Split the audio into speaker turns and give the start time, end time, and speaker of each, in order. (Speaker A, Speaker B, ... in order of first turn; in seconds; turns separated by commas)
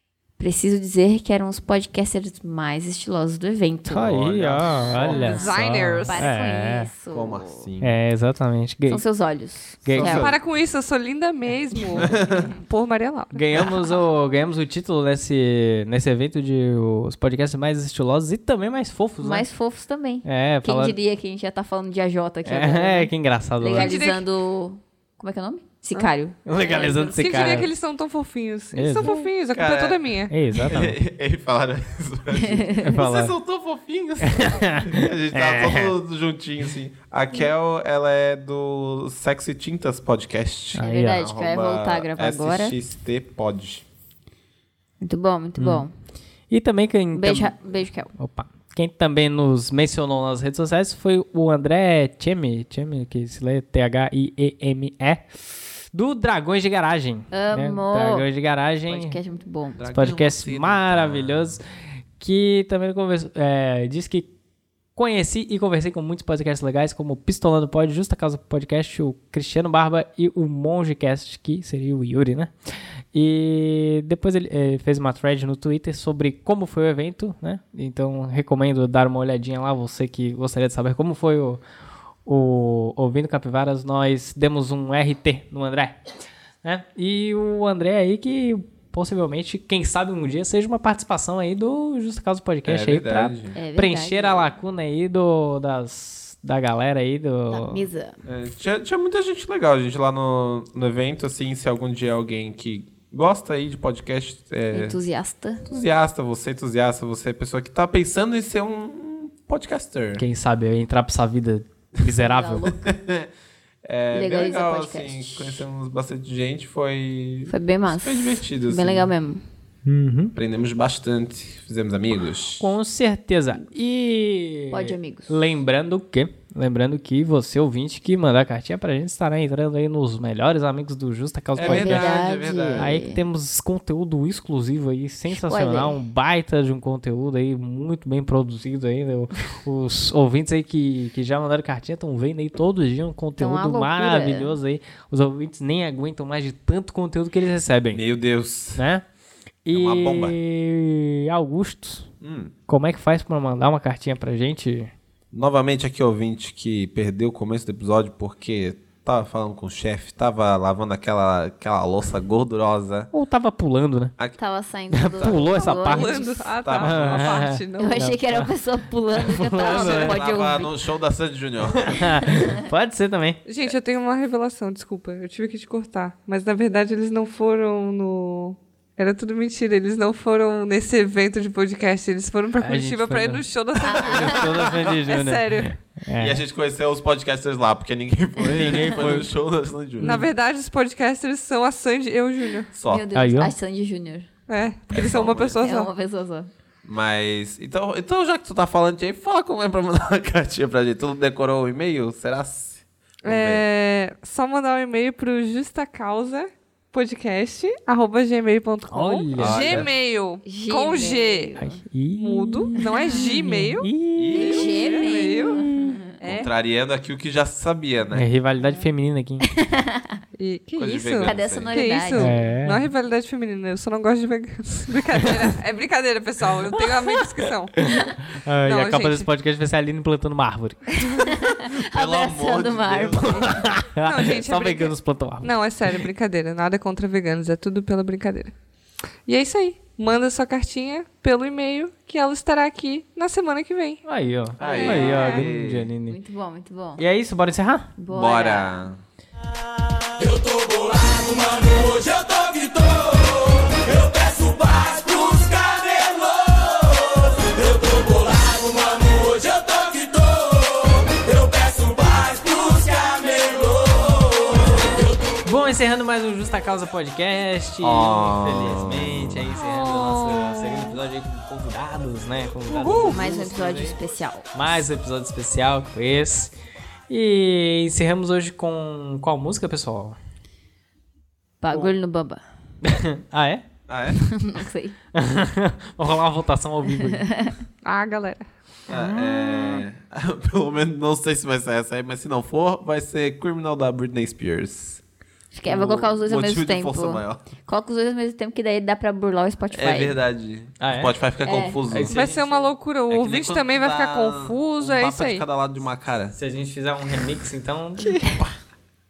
Speaker A: 0.4-4.2, Speaker B: 3.9-6.9, Speaker C: 4.0-6.0, Speaker A: 5.0-5.5, Speaker D: 5.2-6.2, Speaker A: 6.0-7.7, Speaker C: 7.1-7.9, Speaker B: 7.8-9.0, Speaker A: 8.9-10.3, Speaker B: 9.8-10.2, Speaker C: 9.9-10.4, Speaker D: 10.1-13.4, Speaker C: 12.0-12.5, Speaker A: 12.0-12.5, Speaker B: 13.3-19.5, Speaker A: 19.2-27.4, Speaker B: 20.2-21.0, Speaker B: 22.4-24.0, Speaker D: 23.7-24.2, Speaker D: 25.9-30.3, Speaker B: 26.4-27.7, Speaker B: 28.7-29.2, Speaker C: 29.5-43.8, Speaker B: 30.3-31.0, Speaker A: 32.4-32.9, Speaker B: 32.8-33.3, Speaker B: 34.2-35.9, Speaker B: 40.7-41.3, Speaker A: 40.8-42.8, Speaker A: 45.0-45.9, Speaker B: 45.6-45.9, Speaker B: 46.5-47.5, Speaker A: 47.1-48.1, Speaker B: 48.1-55.4, Speaker B: 55.9-59.2, Speaker A: 57.3-58.2, Speaker A: 58.9-59.9, Speaker C: 59.8-61.6, Speaker B: 59.9-61.6, Speaker B: 62.2-64.3, Speaker B: 65.0-72.5, Speaker B: 73.1-81.6, Speaker B: 82.2-86.1, Speaker B: 86.6-97.9, Speaker C: 92.6-93.5, Speaker A: 93.5-94.5, Speaker A: 97.5-98.2, Speaker C: 98.2-105.0, Speaker A: 104.7-105.7, Speaker C: 105.7-110.2, Speaker B: 110.2-112.7, Speaker A: 112.2-112.9, Speaker C: 112.6-113.3, Speaker C: 113.8-119.1, Speaker A: 114.1-115.6, Speaker A: 117.5-119.4, Speaker B: 119.8-120.3, Speaker C: 120.3-122.7, Speaker B: 122.6-148.0, Speaker A: 124.7-125.3, Speaker C: 131.5-133.0, Speaker A: 131.6-133.2, Speaker A: 135.3-136.0, Speaker A: 143.4-144.6, Speaker C: 147.9-148.8, Speaker B: 148.8-149.0, Speaker B: 149.6-152.1, Speaker C: 149.7-150.3, Speaker C: 152.2-152.5, Speaker B: 152.7-154.9, Speaker C: 155.3-163.1, Speaker B: 163.1-164.2, Speaker A: 164.4-166.5, Speaker B: 164.9-166.2, Speaker C: 165.2-165.5, Speaker D: 165.6-168.1, Speaker C: 166.6-167.5, Speaker B: 166.8-168.5, Speaker A: 167.8-170.7, Speaker B: 169.1-170.2, Speaker C: 169.7-172.2, Speaker B: 171.8-173.4, Speaker D: 173.4-185.8, Speaker B: 182.6-183.4, Speaker A: 183.8-184.4, Speaker B: 184.2-186.4, Speaker C: 184.2-184.6, Speaker C: 186.1-190.2, Speaker B: 188.4-189.3, Speaker B: 190.0-190.3, Speaker D: 190.0-192.7, Speaker C: 192.7-193.0, Speaker A: 192.8-194.3, Speaker B: 193.1-193.5, Speaker D: 194.5-195.9, Speaker C: 194.9-195.6, Speaker A: 195.6-196.5, Speaker C: 196.8-203.6, Speaker D: 203.2-211.5, Speaker B: 208.9-209.8, Speaker C: 209.3-209.9, Speaker A: 210.4-211.8, Speaker B: 211.6-215.9, Speaker D: 212.2-215.6, Speaker A: 212.8-213.4, Speaker C: 214.2-214.9, Speaker A: 214.3-216.1, Speaker D: 216.2-216.5, Speaker C: 216.2-218.3, Speaker B: 218.1-219.5, Speaker A: 218.6-218.9, Speaker A: 219.5-220.2, Speaker D: 220.3-227.8, Speaker C: 220.8-221.8, Speaker A: 221.2-222.5, Speaker B: 222.2-222.8, Speaker B: 227.8-231.0, Speaker D: 228.6-229.3, Speaker A: 231.1-233.6, Speaker C: 231.7-233.7, Speaker B: 233.4-235.5, Speaker D: 234.0-238.5, Speaker D: 239.2-244.0, Speaker B: 244.1-246.2, Speaker C: 244.6-245.9, Speaker D: 244.6-245.1, Speaker A: 244.6-245.4, Speaker A: 246.1-247.0, Speaker B: 247.0-247.9, Speaker A: 248.0-248.8, Speaker C: 248.1-249.0, Speaker E: 250.2-265.4, Speaker B: 265.4-273.9, Speaker C: 267.8-269.4, Speaker D: 269.6-271.0, Speaker C: 272.7-273.2, Speaker A: 272.8-274.4, Speaker B: 274.5-276.5, Speaker B: 277.1-280.2, Speaker A: 281.6-282.4, Speaker B: 282.8-283.6, Speaker C: 283.9-284.2, Speaker A: 284.2-284.9, Speaker B: 285.1-287.2, Speaker A: 287.2-287.6, Speaker D: 287.8-288.5, Speaker C: 288.9-295.0, Speaker A: 288.9-289.8, Speaker A: 295.5-300.1, Speaker C: 295.7-297.4, Speaker C: 299.7-302.1, Speaker B: 300.8-301.1, Speaker A: 301.4-301.8, Speaker B: 301.9-302.7, Speaker D: 302.1-305.4, Speaker C: 303.1-306.3, Speaker B: 306.3-308.2